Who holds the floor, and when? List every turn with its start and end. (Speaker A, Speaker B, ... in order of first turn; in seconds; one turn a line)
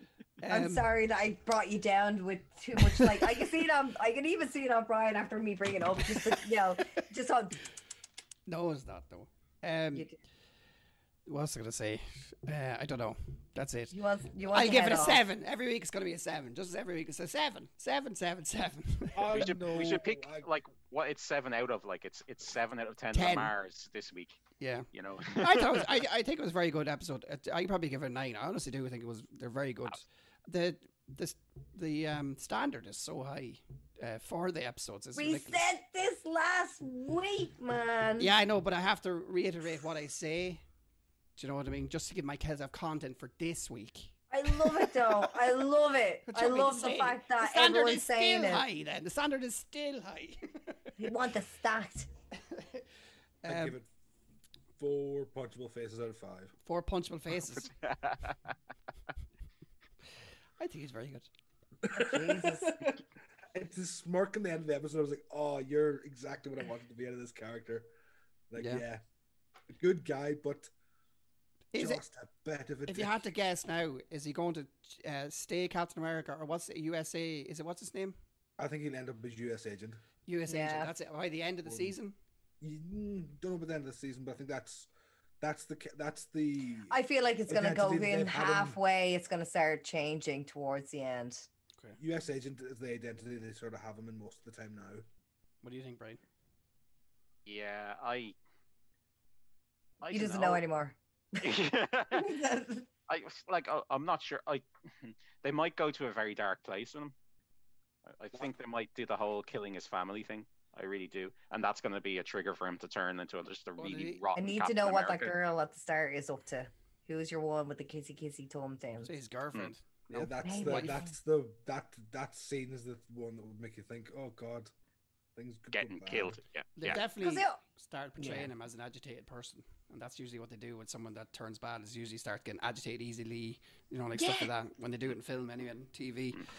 Speaker A: 0.4-0.9
Speaker B: 0.5-7.6
Speaker A: 2.8-3.3
Speaker A: 8.5-10.1
Speaker B: 9.9-10.2
Speaker A: 11.3-13.9
Speaker B: 13.9-15.2
Speaker A: 14.5-19.5
Speaker C: 19.1-20.5
Speaker D: 19.3-25.9
Speaker A: 23.1-23.5
Speaker A: 24.6-35.6
Speaker B: 35.1-38.3
Speaker A: 38.2-40.6
Speaker A: 41.4-45.3
Speaker B: 44.3-48.6
Speaker A: 46.3-50.9
Speaker B: 51.0-52.1
Speaker A: 52.5-52.8
Speaker A: 53.4-53.8
Speaker C: 53.5-53.9
Speaker C: 54.8-56.5
Speaker A: 56.6-57.7
Speaker D: 57.6-58.5
Speaker A: 60.6-61.3
Speaker C: 61.8-67.9
Speaker B: 61.9-62.9
Speaker C: 68.5-69.0
Speaker A: 68.6-68.8
Speaker C: 69.7-70.7
Speaker A: 71.7-72.0
Speaker C: 71.7-73.2
Speaker A: 72.9-78.2
Speaker C: 78.6-80.0
Speaker A: 80.3-82.2
Speaker B: 80.5-80.9
Speaker C: 81.7-82.0
Speaker C: 82.6-84.9
Speaker C: 85.4-87.0
Speaker B: 86.9-91.5
Speaker C: 87.5-88.8
Speaker C: 92.0-95.0
Speaker A: 95.6-96.2
Speaker D: 97.5-98.4
Speaker D: 100.0-100.6
Speaker B: 100.1-101.5
Speaker D: 101.4-102.4
Speaker B: 102.1-102.9
Speaker D: 103.1-107.1
Speaker D: 108.1-115.3
Speaker A: 113.8-114.2
Speaker B: 114.4-119.1
Speaker A: 119.0-121.0
Speaker C: 120.1-124.7
Speaker B: 120.4-121.1
Speaker C: 125.4-126.4
Speaker D: 125.7-127.0
Speaker A: 126.8-136.5
Speaker B: 127.2-127.6
Speaker B: 128.2-128.5
Speaker B: 134.2-134.5